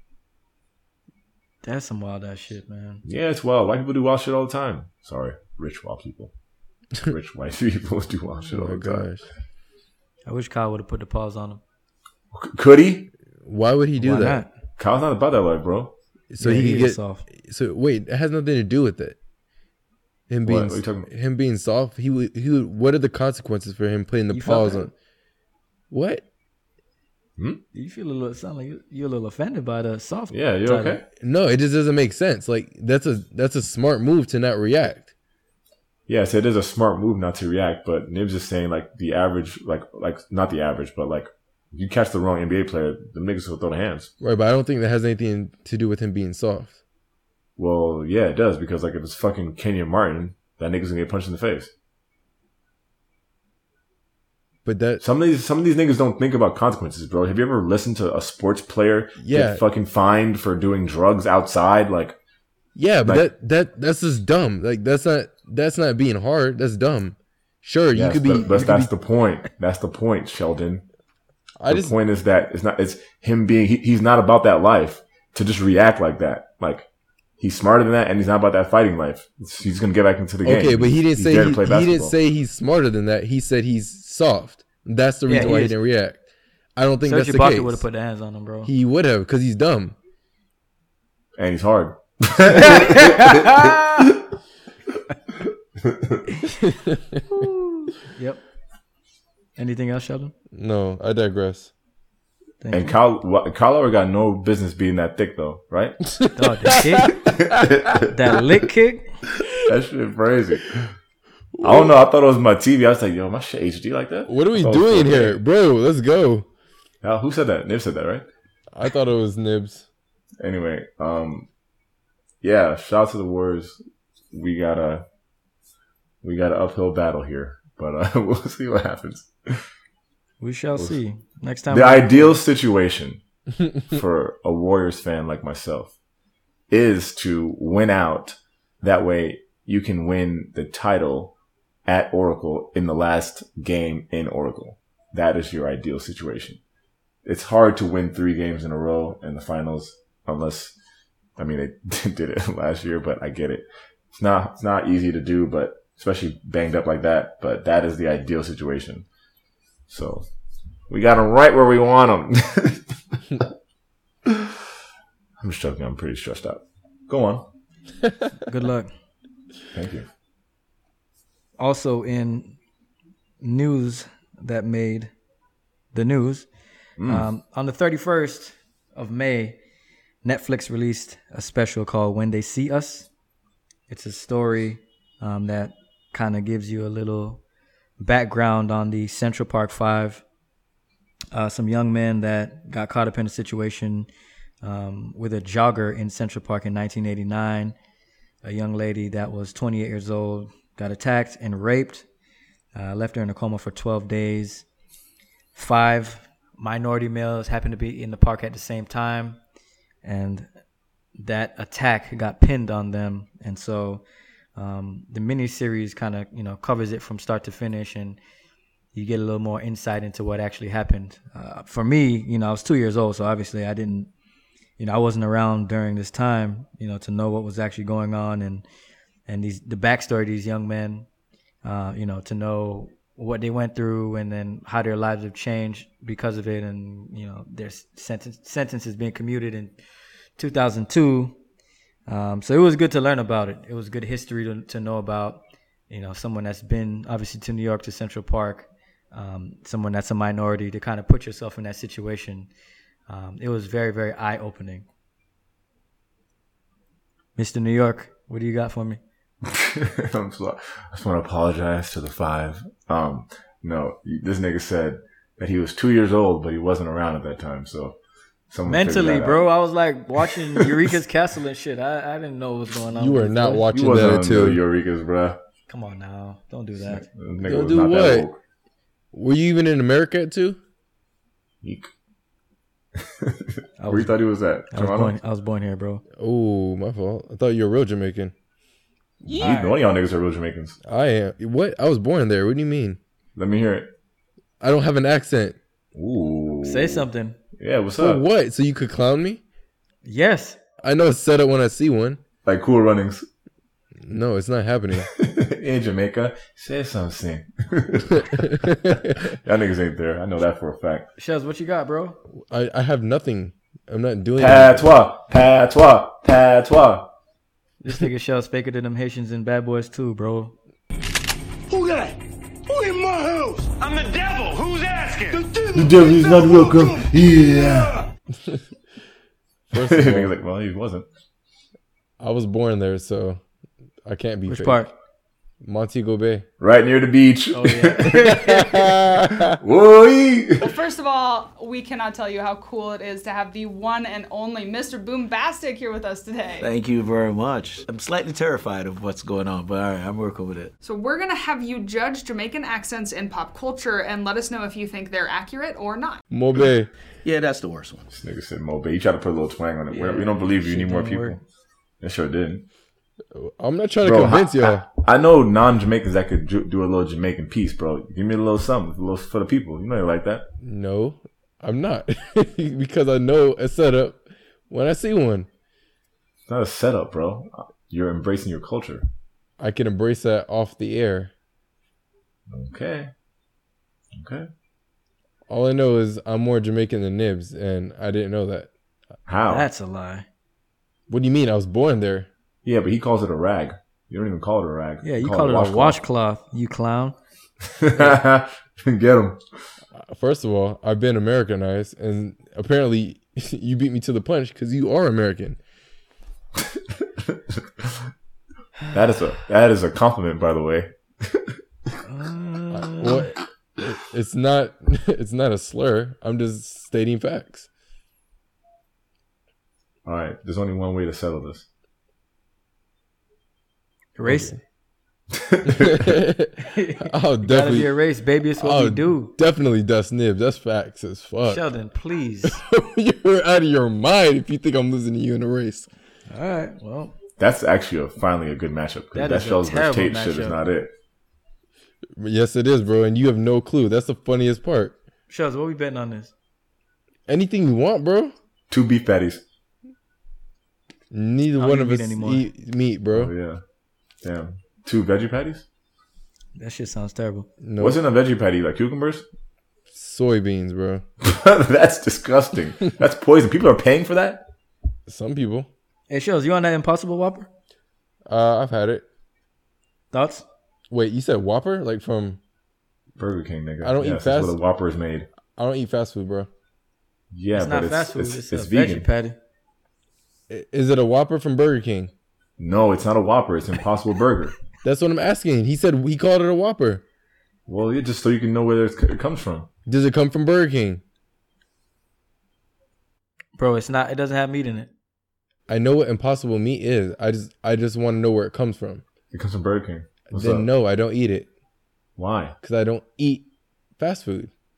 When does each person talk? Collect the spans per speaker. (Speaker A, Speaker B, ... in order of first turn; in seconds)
Speaker A: 1.6-3.0, 10.2-11.6, 14.0-14.5, 16.4-17.2, 24.3-24.9, 27.7-31.0, 85.3-85.7, 87.0-88.7, 92.7-93.8, 98.0-98.4, 99.6-100.3, 102.6-103.0, 106.3-107.2, 108.1-109.1, 130.4-132.4, 168.4-168.9, 171.6-172.6, 173.4-175.1, 175.9-176.5, 177.0-179.6, 180.2-183.1, 183.9-187.4, 188.0-190.2, 191.3-194.1, 194.6-197.7, 198.4-202.1, 202.7-204.7, 205.5-209.4, 210.0-210.5, 211.2-214.0, 214.6-218.2, 218.9-224.1, 224.8-228.6, 229.3-231.1, 231.6-239.8, 240.3-241.3, 242.1-252.5, 253.1-254.8, 257.4-259.0, 268.6-273.6, 275.7-277.1, 283.8-284.1, 284.7-286.0, 289.4-289.8, 296.6-297.4, 300.0-300.6, 311.2-312.2, 317.8-320.5, 334.5-334.9, 337.5-338.9, 360.0-361.4, 389.5-390.2, 395.0-397.1, 412.1-413.2, 424.1-424.5, 426.7-429.3, 431.4-432.6, 436.3-437.2, 439.1-440.6, 445.3-446.3, 451.6-452.4, 456.6-457.5, 466.1-467.5, 470.1-470.4, 477.5-479.4, 493.6-494.9
Speaker B: 3.0-6.3, 7.0-9.1, 12.3-13.1, 14.8-15.9, 20.4-21.1, 30.3-31.0, 36.1-44.1, 47.6-51.7, 55.0-62.2, 67.9-70.8, 71.7-76.9, 77.4-82.1, 91.4-94.1, 95.8-96.2, 102.7-106.0, 107.6-108.0, 109.7-110.8, 111.6-115.4, 117.0-118.2, 120.4-121.5, 122.4-123.8, 124.3-125.0, 126.2-129.7, 131.7-133.2, 133.9-135.9, 136.7-141.3, 141.8-146.6, 147.2-150.8, 151.4-159.1, 159.9-160.3, 160.9-162.8, 165.4-167.4, 169.7-170.1, 177.0-177.2, 259.4-268.0, 268.5-269.4, 273.7-275.4, 276.8-278.4, 281.6-281.9, 283.2-285.1, 289.3-290.8, 293.4-293.9, 295.9-297.0, 297.6-298.2, 302.4-303.2, 305.1-308.2, 308.9-311.1, 314.4-317.1, 325.7-328.1, 329.8-331.1, 336.6-338.4, 339.6-340.6, 358.1-361.4, 362.0-362.6, 364.0-370.4, 376.5-379.1, 382.5-383.1, 384.2-384.5, 389.3-389.6, 392.6-396.0, 397.8-399.4, 408.9-411.5, 420.1-421.6, 425.3-426.2, 437.4-440.9, 448.7-449.4, 453.1-453.6, 454.2-455.6, 457.8-459.2, 461.2-464.4, 473.2-475.3, 477.3-479.1, 482.6-484.5, 487.7-489.7, 499.3-500.7, 502.2-502.6
Speaker C: 8.5-9.2, 13.4-14.4, 16.3-19.2, 20.3-24.9, 25.9-26.2, 31.2-35.1, 44.2-46.8, 54.6-55.0, 59.2-59.6, 62.7-68.9, 71.6-72.0, 80.4-86.2, 86.8-87.8, 88.6-90.0, 96.7-97.2, 100.5-101.7, 106.2-107.0, 111.5-111.9, 114.3-116.5, 118.7-119.9, 273.0-274.6, 277.4-278.3, 279.1-280.6, 286.2-288.3, 289.2-289.5, 290.8-293.0, 294.6-295.6, 298.0-299.4, 300.8-302.2, 304.0-305.1, 308.3-309.2, 312.5-314.9, 329.7-330.3, 332.2-333.4, 334.0-334.9, 335.6-336.4, 338.6-339.4, 356.3-356.9, 363.3-364.9, 370.6-375.5, 379.6-381.3, 385.5-388.7, 391.1-392.3, 399.9-405.6, 412.7-417.7, 424.2-424.6, 425.6-427.9, 428.6-431.6, 432.4-435.9, 442.1-445.0, 447.3-448.3, 451.1-453.3, 457.6-458.0, 459.9-461.0, 465.1-465.7, 468.2-469.0, 470.9-472.4, 473.8-474.6, 475.6-476.5, 480.5-482.1, 484.8-487.0, 489.9-491.0, 495.7-499.0, 500.3-501.5, 502.6-503.4, 504.0-504.5
Speaker D: 321.7-327.1
Speaker E: 340.6-346.7, 350.8-356.2
Speaker F: 346.6-350.7, 357.2-358.1